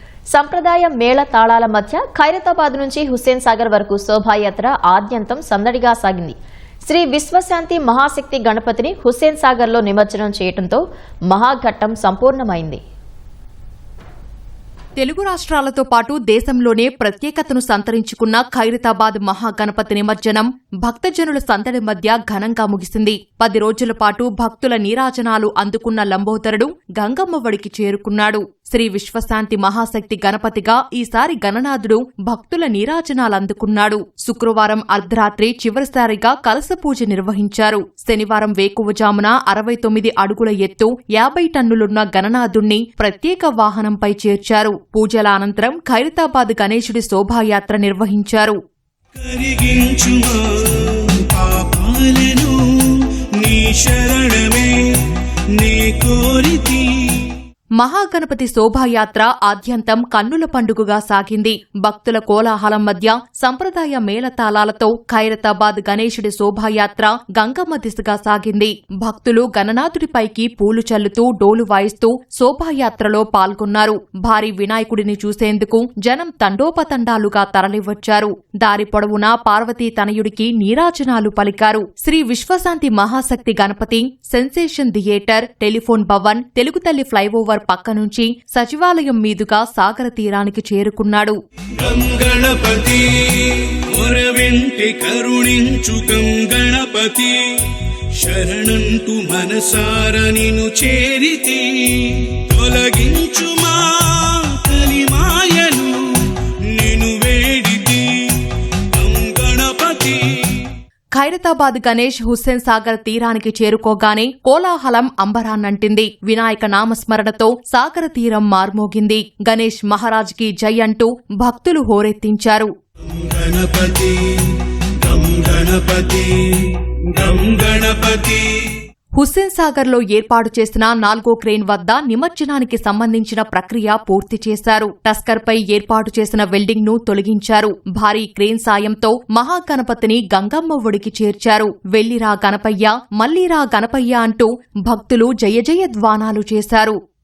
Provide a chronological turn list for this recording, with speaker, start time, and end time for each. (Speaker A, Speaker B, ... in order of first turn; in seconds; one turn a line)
Speaker A: 0.3-6.3
Speaker A: 6.9-12.8
Speaker B: 15.0-48.6
Speaker C: 49.2-54.8
Speaker C: 55.6-57.4
Speaker B: 57.8-91.4
Speaker C: 91.8-110.7
Speaker B: 111.2-122.7
Speaker C: 123.1-128.5
Speaker B: 129.2-147.0